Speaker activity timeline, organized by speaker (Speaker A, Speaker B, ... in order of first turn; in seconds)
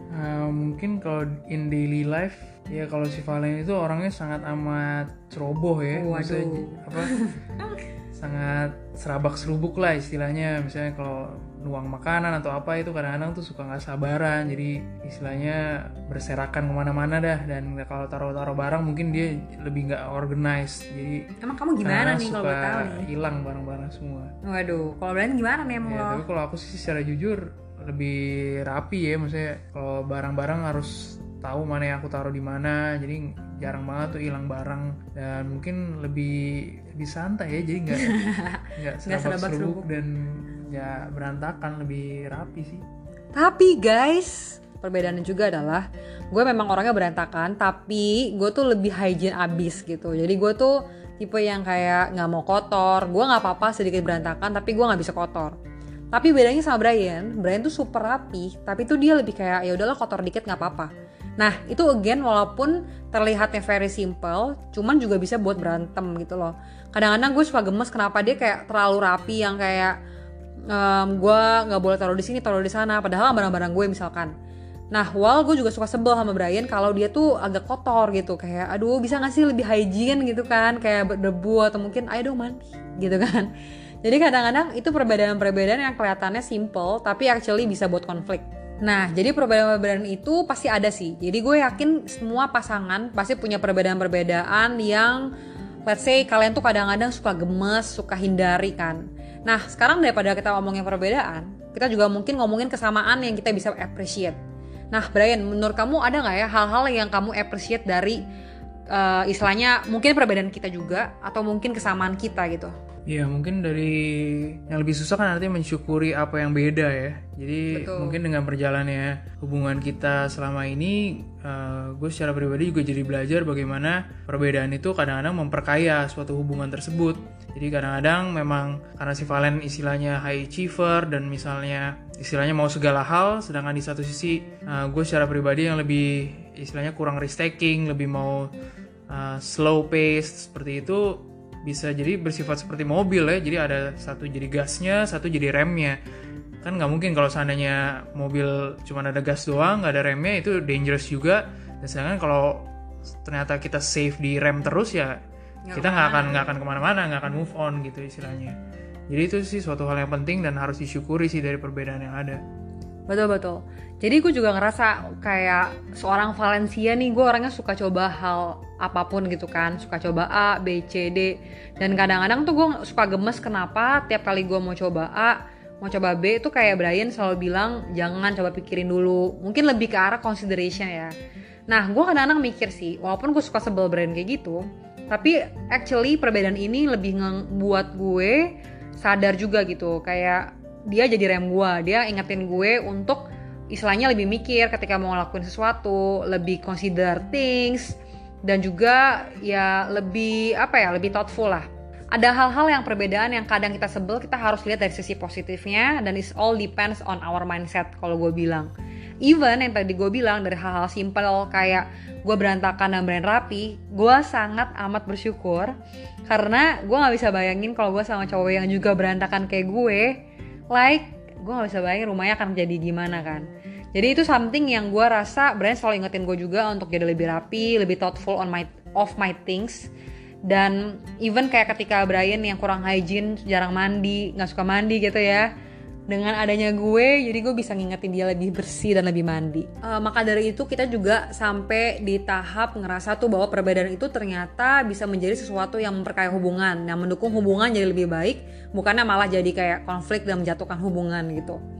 Speaker A: 0.1-7.1, 8.1-21.3, 21.8-24.3, 25.9-38.2, 38.8-42.8, 113.1-138.5, 139.1-146.0, 146.6-152.7, 153.2-155.2, 155.7-158.6, 159.1-162.4
Speaker B: 5.9-7.4, 21.4-23.1, 24.4-26.2, 37.9-39.9, 43.3-55.5, 56.1-70.0, 70.7-74.3, 74.9-83.5, 84.0-95.3, 95.8-104.4, 104.9-108.2, 108.9-112.7, 117.7-118.2, 155.7-156.6, 163.1-181.1, 181.7-208.7, 209.2-215.8, 216.3-220.2, 220.7-229.9, 230.4-235.5, 236.1-251.6